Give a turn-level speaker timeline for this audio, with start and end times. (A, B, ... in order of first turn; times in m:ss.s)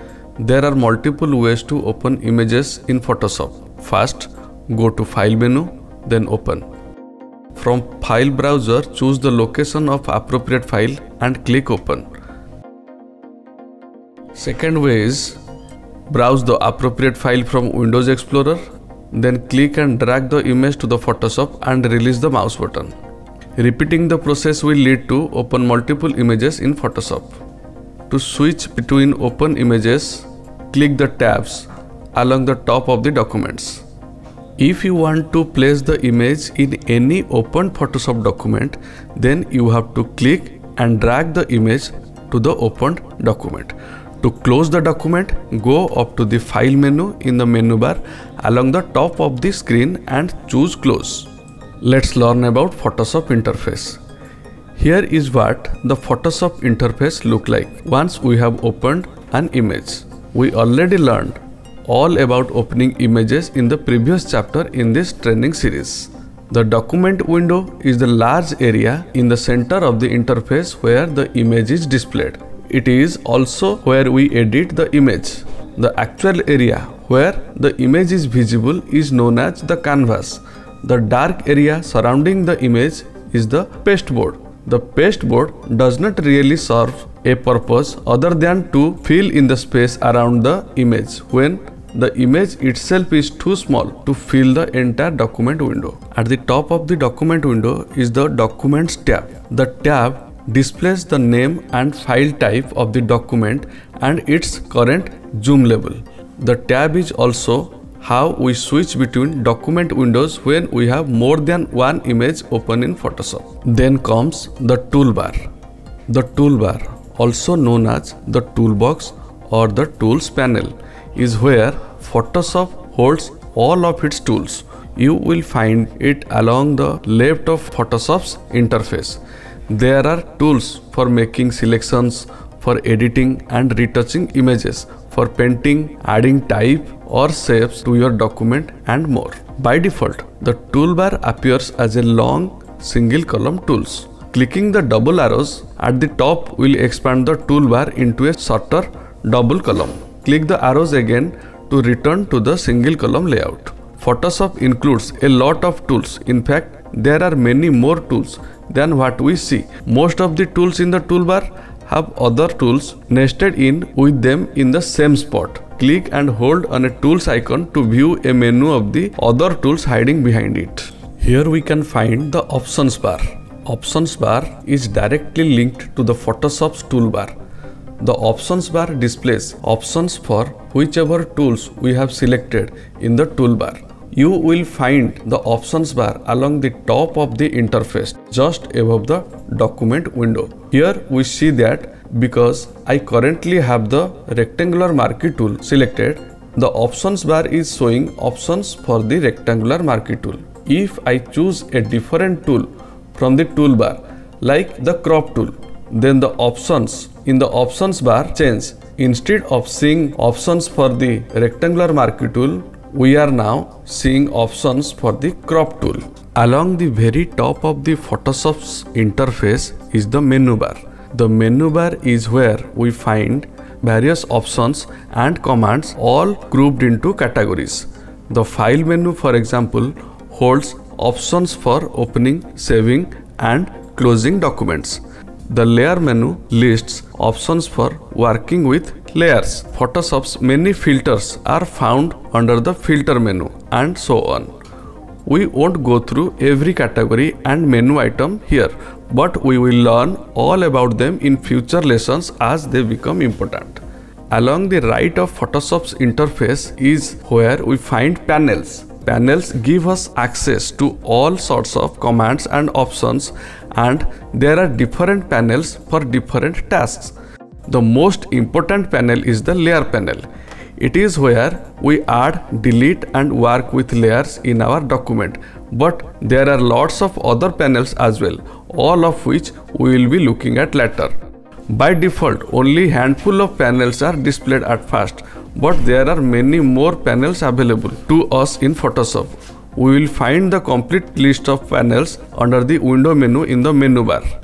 0:00.4-0:06.7 A
0:07.5-0:12.1 A
0:14.4-0:15.4 A
0:16.1-0:22.9 A
0:23.6-0:27.4 A
0:28.1-0:33.8 A
0:34.6-0:51.3 A
0:51.8-0:54.0 A
0:54.8-1:55.4 A
1:56.1-2:57.3 A
2:58.0-4:04.5 A
4:05.2-4:27.1 A
4:27.6-4:30.2 A
4:30.8-4:41.1 A
4:41.7-4:54.2 A